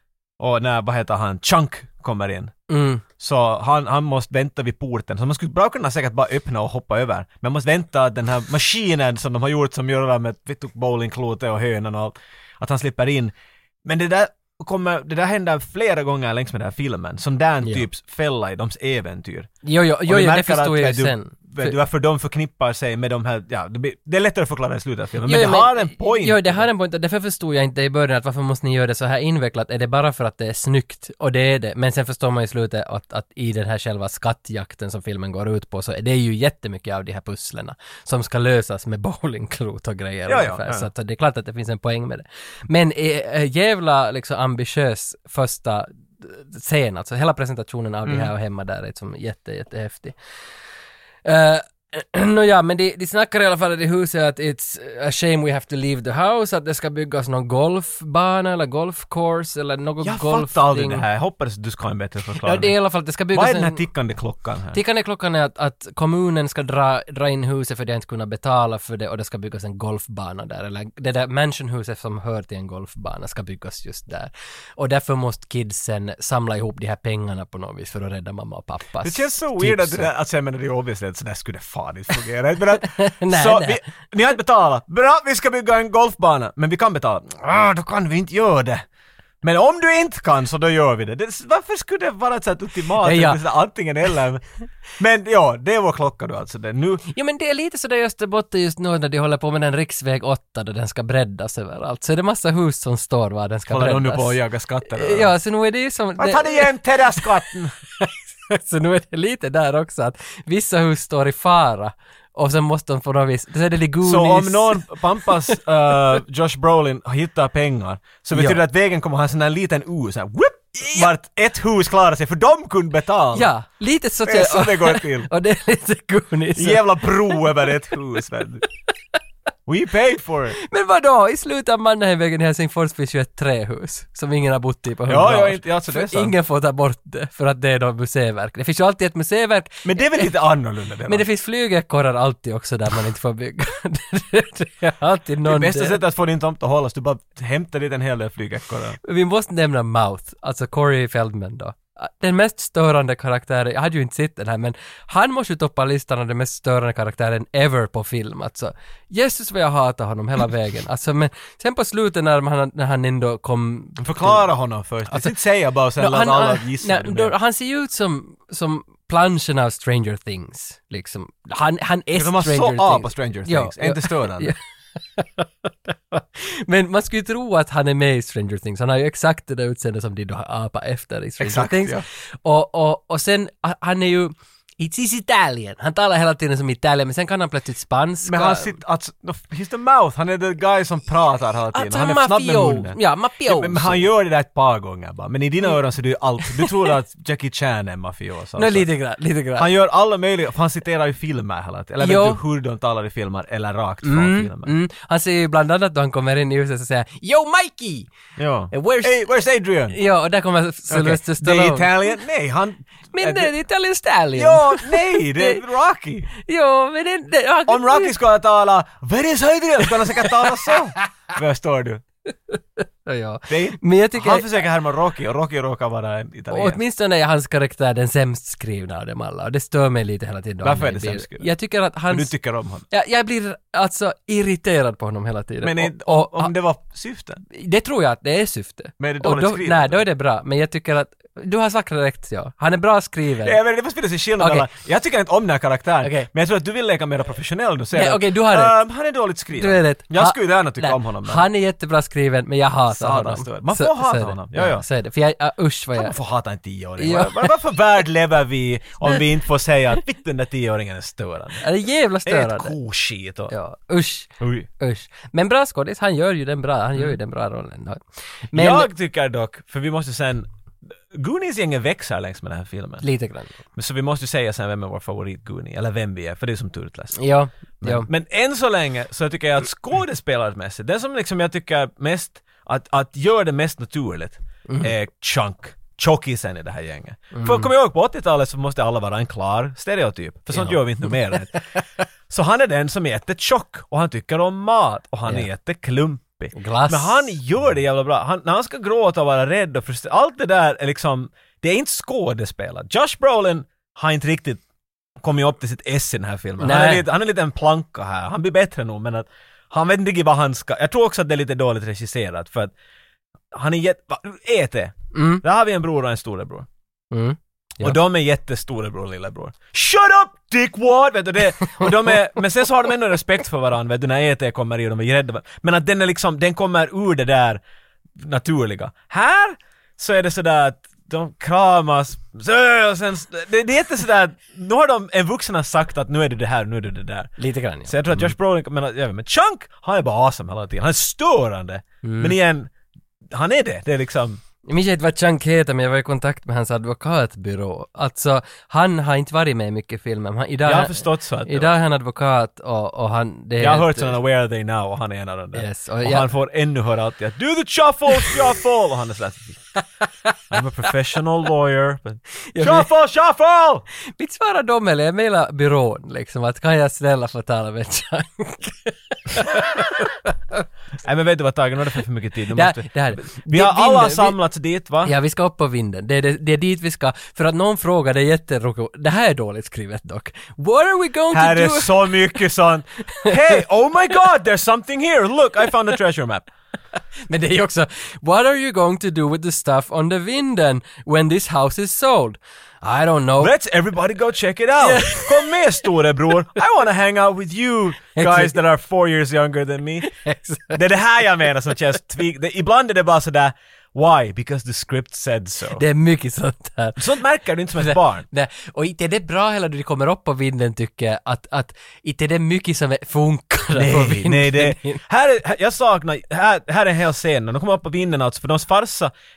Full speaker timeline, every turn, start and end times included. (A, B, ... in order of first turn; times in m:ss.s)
0:00.4-0:02.5 A
0:02.7-0:03.0 B
0:03.2-0:19.5 A
0:19.6-0:21.8 B
0:20.0-0:26.7 A
0:25.2-0:50.1 B
0:40.3-0:40.9 A
0:48.0-0:48.3 A
0:51.2-1:01.0 B
1:00.0-1:02.7 A
1:02.4-1:03.8 B
1:03.3-1:04.8 A
1:04.7-1:20.1 B
1:19.0-1:28.8 A
1:22.8-1:23.8 B
1:29.4-1:34.4 A
1:33.0-1:33.4 B
1:35.0-1:37.0 A
1:37.1-1:44.3 B
1:43.7-1:45.3 A
1:44.9-1:47.2 B
1:46.2-1:47.7 A
1:48.0-1:54.9 B
1:54.0-2:03.5 A
1:58.3-1:58.6 B
2:00.8-2:01.1 B
2:03.3-2:07.4 B
2:04.2-2:05.3 A
2:06.6-2:08.6 A
2:09.6-2:10.6 A
2:10.6-2:20.3 B
2:15.1-2:16.3 A
2:19.8-2:21.2 A
2:21.1-2:26.0 B
2:25.4-2:29.0 A
2:29.0-2:44.4 B
2:44.0-2:47.3 A
2:46.0-2:54.6 B
2:52.1-2:54.5 A
2:55.1-3:08.7 B
3:01.4-3:02.0 A
3:08.2-3:18.9 A
3:11.7-3:14.0 B
3:18.6-3:19.7 B
3:19.6-3:24.7 A
3:22.0-3:22.4 B
3:24.0-3:28.1 B
3:28.4-3:30.0 A
3:28.7-3:29.2 B
3:29.9-3:32.1 B
3:30.9-3:33.5 A
3:33.1-3:35.6 B
3:34.3-3:36.3 A
3:36.4-3:38.1 B
3:37.7-3:42.0 A
3:42.5-3:44.6 B
3:43.5-3:46.8 A
3:46.5-3:52.3 B
3:50.6-3:51.5 A
3:52.1-3:52.8 A
3:52.9-3:56.5 B
3:55.6-3:57.4 A
3:57.5-4:03.6 B
3:59.0-4:00.0 A
4:03.4-4:11.4 A
4:04.4-4:04.7 B
4:06.0-4:06.3 B
4:07.9-4:08.8 B
4:09.6-4:16.1 B
4:12.9-4:14.8 A
4:16.0-4:21.6 A
4:17.0-4:17.5 B
4:21.6-4:22.7 B
4:22.2-4:23.5 A
4:23.5-4:28.0 B
4:24.4-4:24.7 A
4:28.5-4:28.9 B
4:28.5-4:30.5 A
4:31.1-4:33.0 A
4:33.0-4:33.6 B
4:33.7-4:37.2 A
4:37.2-4:38.1 B
4:37.8-4:51.6 A
4:44.7-4:44.9 B
4:47.3-4:47.7 B
4:50.5-4:51.6 B
4:52.3-5:04.6 A
4:56.5-4:57.3 B
5:05.2-5:12.7 A
5:06.6-5:07.0 B
5:13.5-5:16.7 A
5:15.1-5:15.4 B
5:17.1-5:18.0 B
5:17.8-5:27.6 A
5:28.2-5:37.3 A
5:37.4-5:38.3 B
5:37.8-5:42.7 A
5:42.0-5:42.4 B
5:43.3-5:44.4 A
5:44.6-5:54.2 B
5:50.6-5:51.7 A
5:53.6-5:59.6 A
5:55.5-5:56.3 B
6:00.5-6:03.8 A
6:02.5-6:02.9 B
6:04.2-6:10.6 B
6:11.0-6:15.1 A
6:12.5-6:14.4 B
6:15.0-6:22.1 B
6:21.3-6:26.5 A
6:27.3-6:33.5 B
6:33.4-6:40.1 A
6:34.8-6:35.5 B
6:38.1-6:38.6 B
6:40.0-6:40.8 B
6:40.7-6:45.8 A
6:45.8-6:47.0 B
6:47.0-6:48.2 A
6:47.8-6:55.0 B
6:53.7-6:59.1 A